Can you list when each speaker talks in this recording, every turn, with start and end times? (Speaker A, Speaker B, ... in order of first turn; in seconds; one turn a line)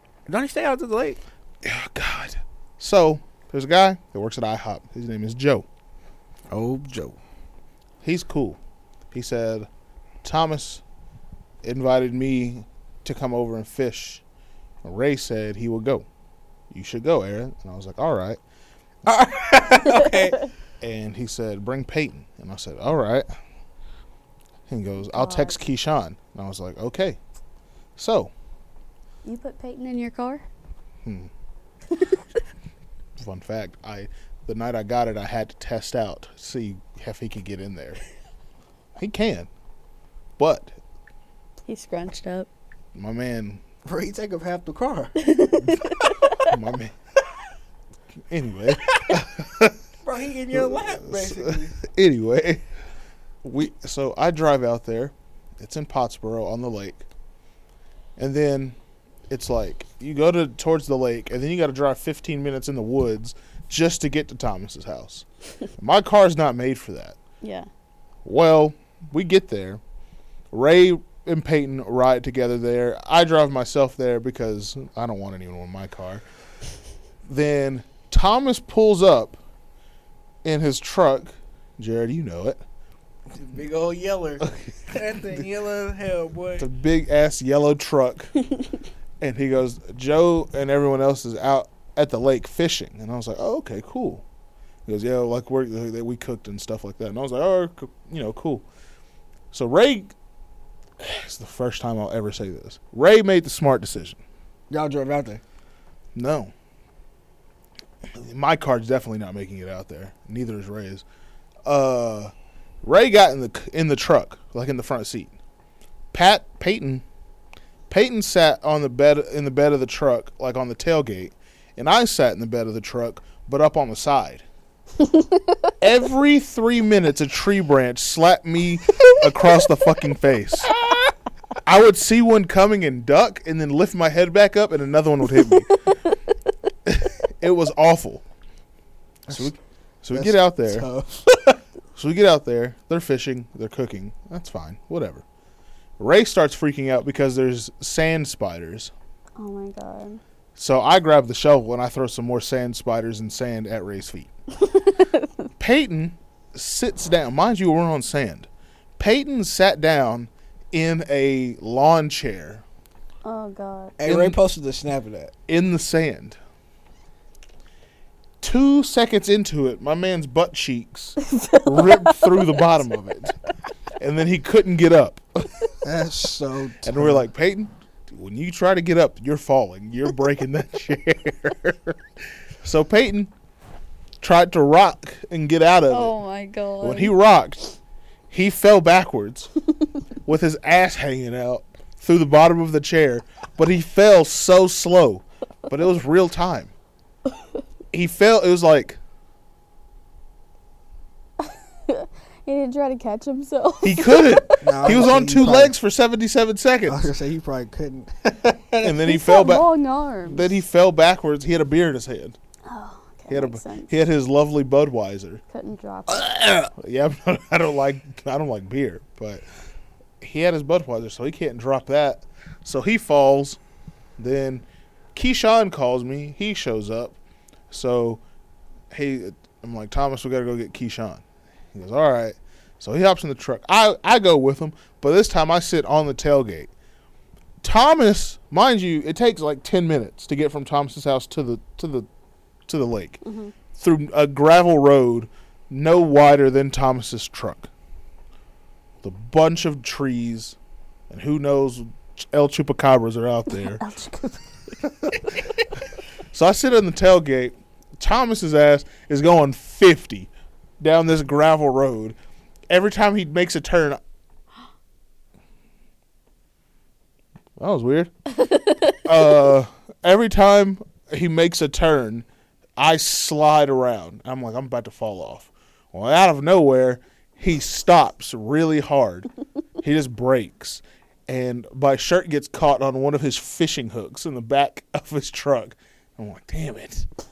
Speaker A: 0.3-1.2
Speaker B: 1.6-5.7
Speaker A: 6.5-7.2
Speaker B: 8.0-8.6
Speaker B: 9.1-9.7
Speaker B: 10.2-10.8
Speaker B: 11.6-14.2
Speaker B: 14.8-16.1
Speaker B: 16.7-18.4
Speaker A: 19.1-20.4
Speaker B: 20.8-23.3
Speaker B: 24.7-27.2
Speaker C: 25.1-25.6
Speaker B: 28.0-28.3
Speaker C: 29.2-30.5
Speaker B: 31.0-31.3
Speaker B: 33.2-38.0
Speaker B: 39.0-39.5
Speaker B: 40.4-40.8
Speaker C: 41.7-42.5
Speaker B: 43.0-43.6
Speaker A: 43.9-45.9
Speaker C: 45.2-46.5
Speaker B: 46.5-46.9
Speaker B: 48.3-49.8
Speaker A: 50.0-51.8
Speaker B: 50.5-52.6
Speaker B: 53.4-57.1
Speaker B: 58.2-58.8
Speaker B: 59.3-65.2
Speaker B: 65.8-67.2
Speaker C: 67.4-67.7
Speaker B: 68.2-69.8
Speaker B: 70.5-76.2
Speaker B: 77.3-79.4
Speaker B: 80.4-82.6
Speaker A: 83.3-86.7
Speaker B: 84.4-85.4
Speaker B: 86.6-88.3
Speaker B: 89.2-94.2
Speaker B: 94.9-98.7
Speaker B: 99.5-100.1
Speaker B: 101.0-104.2
Speaker A: 104.7-105.4
Speaker B: 106.2-106.5
Speaker B: 108.1-111.0
Speaker B: 111.7-115.4
Speaker B: 116.1-117.0
Speaker B: 117.9-124.5
Speaker C: 125.0-125.6
Speaker B: 125.8-130.7
Speaker B: 131.6-135.9
Speaker B: 136.8-138.2
Speaker A: 139.3-139.6
Speaker B: 139.3-140.9
Speaker A: 140.1-141.6
Speaker B: 141.9-145.2
Speaker B: 146.0-148.9
Speaker C: 149.4-150.2
Speaker B: 150.6-154.3
Speaker C: 154.6-155.3
Speaker B: 155.6-162.6
Speaker C: 163.2-164.0
Speaker A: 164.0-165.3
Speaker B: 164.1-164.4
Speaker B: 165.5-166.4
Speaker B: 168.4-173.4
Speaker C: 171.3-172.5
Speaker B: 174.0-175.7
Speaker A: 175.8-177.2
Speaker B: 176.8-182.0
Speaker B: 182.6-183.3
Speaker B: 184.2-186.1
Speaker C: 185.9-187.1
Speaker B: 186.8-187.6
Speaker B: 188.3-189.5
Speaker B: 190.2-196.7
Speaker B: 197.9-199.0
Speaker C: 201.4-204.6
Speaker B: 203.8-207.1
Speaker A: 204.6-205.7
Speaker A: 206.9-208.9
Speaker B: 208.8-209.7
Speaker C: 209.0-210.5
Speaker B: 210.3-212.4
Speaker C: 212.7-213.9
Speaker B: 213.3-215.4
Speaker C: 215.5-216.4
Speaker A: 216.2-216.7
Speaker B: 216.7-219.4
Speaker B: 220.2-223.6
Speaker B: 224.2-227.2
Speaker B: 227.7-228.2
Speaker B: 228.9-236.7
Speaker B: 237.6-242.1
Speaker B: 242.7-243.2
Speaker C: 243.2-243.5
Speaker B: 243.8-247.7
Speaker B: 249.0-250.6
Speaker B: 251.1-253.8
Speaker C: 253.6-254.8
Speaker B: 256.3-262.2
Speaker B: 262.7-264.0
Speaker B: 267.6-268.1
Speaker C: 268.4-269.0
Speaker B: 269.0-272.3
Speaker B: 272.8-279.3
Speaker B: 279.8-287.1